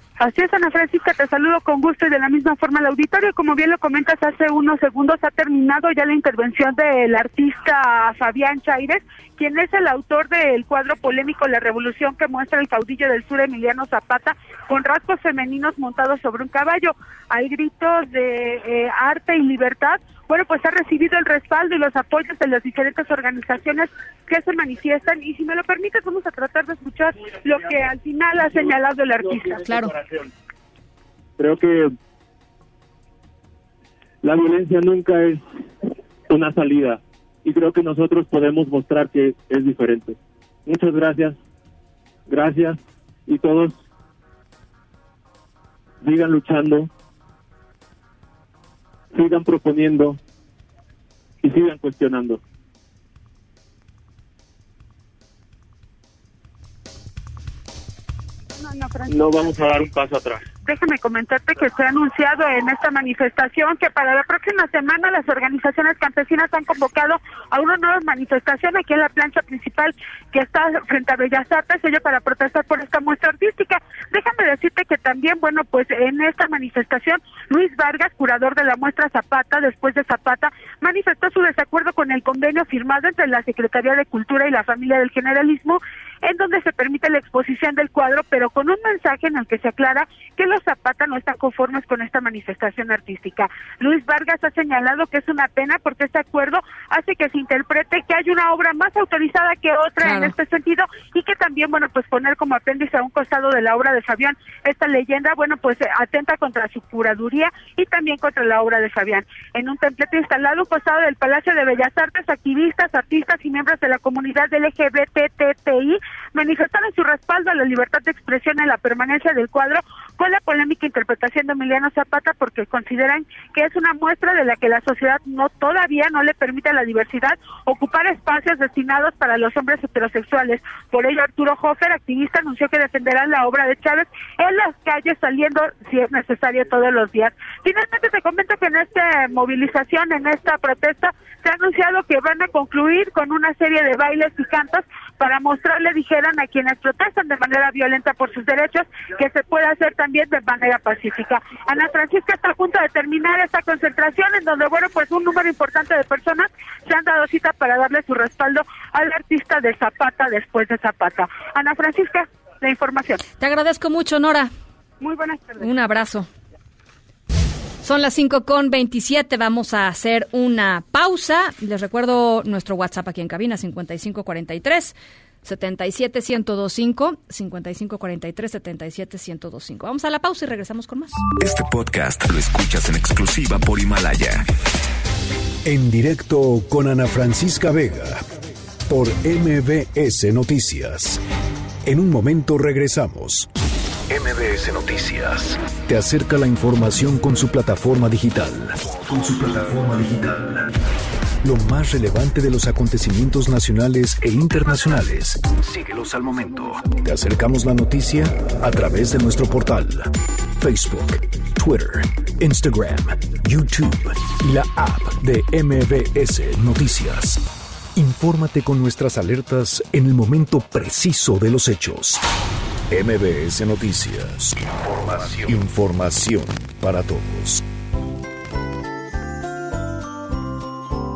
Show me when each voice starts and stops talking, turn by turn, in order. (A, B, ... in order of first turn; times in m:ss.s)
0:00.2-0:29.6 A
0:29.4-0:30.3 B
0:29.6-0:29.9 C
0:31.4-0:31.9 B
0:34.2-0:35.4 B
0:36.3-0:41.4 B
0:42.3-0:43.8 B
0:46.0-0:46.9 B
0:49.1-0:50.2 B
0:51.4-0:52.4 B
0:58.6-0:59.1 A
0:59.0-1:00.4 B
1:00.6-2:43.2 A
1:40.0-1:40.3 C
2:43.4-2:44.5 C
2:45.0-2:45.7 A
2:45.6-2:46.3 C
2:47.8-3:01.2 C
3:01.4-3:04.4 D
3:05.6-3:08.2 E
3:08.9-3:11.2 E
3:11.8-3:13.5 E
3:14.1-3:20.6 E
3:21.4-3:37.4 E
3:37.9-3:42.2 E
3:42.9-3:47.6 E